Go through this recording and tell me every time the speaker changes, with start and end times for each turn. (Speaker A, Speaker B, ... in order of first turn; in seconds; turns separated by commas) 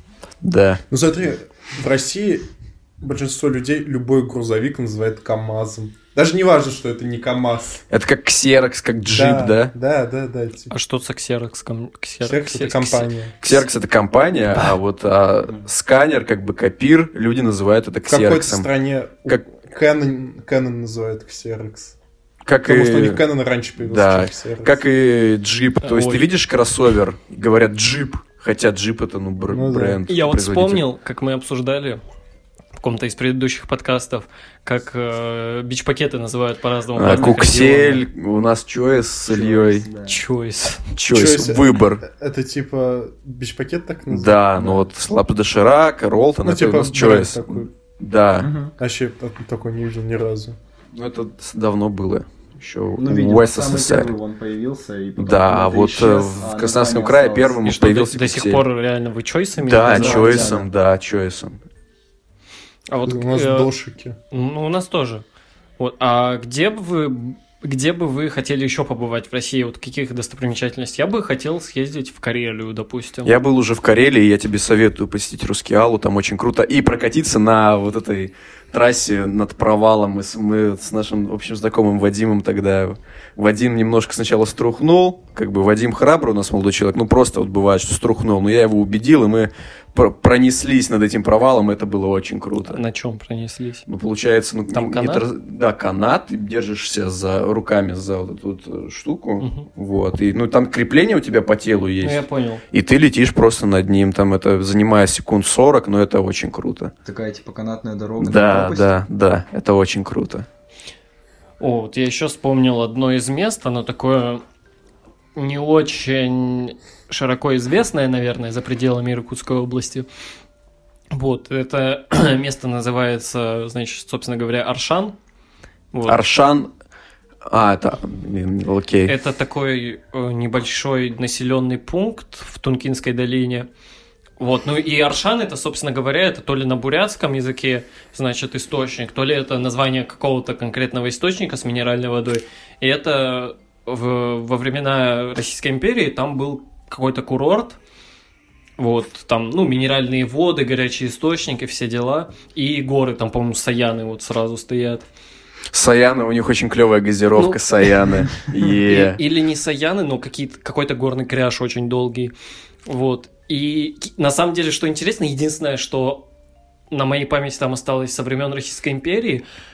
Speaker A: 0.4-0.8, Speaker B: 0.9-2.5, Speaker B: 3.0-7.8, Speaker A: 7.9-9.7, Speaker B: 9.1-10.7, Speaker C: 10.7-13.1, Speaker B: 12.2-13.4, Speaker A: 13.4-18.7, Speaker B: 18.1-22.0, Speaker A: 22.5-23.2, Speaker B: 22.6-24.8, Speaker A: 23.8-30.9, Speaker C: 25.8-26.3, Speaker B: 29.5-30.0, Speaker C: 30.1-32.0, Speaker C: 32.8-38.0, Speaker A: 37.0-39.9, Speaker D: 39.3-40.2, Speaker C: 40.1-40.9, Speaker A: 40.9-42.0, Speaker B: 41.1-44.8, Speaker A: 44.1-48.5, Speaker B: 46.4-47.7, Speaker D: 48.4-48.7, Speaker B: 48.8-50.6, Speaker A: 50.9-54.1, Speaker D: 53.0-57.6, Speaker A: 55.2-58.6, Speaker C: 57.6-60.6, Speaker A: 59.6-61.6, Speaker D: 59.9-60.7, Speaker C: 62.9-63.7, Speaker B: 63.0-64.2, Speaker C: 64.3-65.2, Speaker C: 65.8-73.3, Speaker A: 73.2-92.8, Speaker C: 92.7-93.9, Speaker A: 93.9-106.9, Speaker C: 94.7-95.2, Speaker C: 99.4-99.7, Speaker C: 102.0-102.6, Speaker D: 107.0-108.9, Speaker A: 108.2-110.5, Speaker C: 111.6-114.4, Speaker C: 115.3-120.1, Speaker C: 121.1-125.2, Speaker C: 125.9-126.2, Speaker A: 126.1-126.7, Speaker A: 127.5-129.1, Speaker C: 129.1-133.7, Speaker C: 134.4-147.8, Speaker C: 148.8-155.0, Speaker A: 155.7-159.2, Speaker C: 157.4-157.6, Speaker C: 158.8-162.3, Speaker C: 162.9-166.2, Speaker C: 166.9-169.4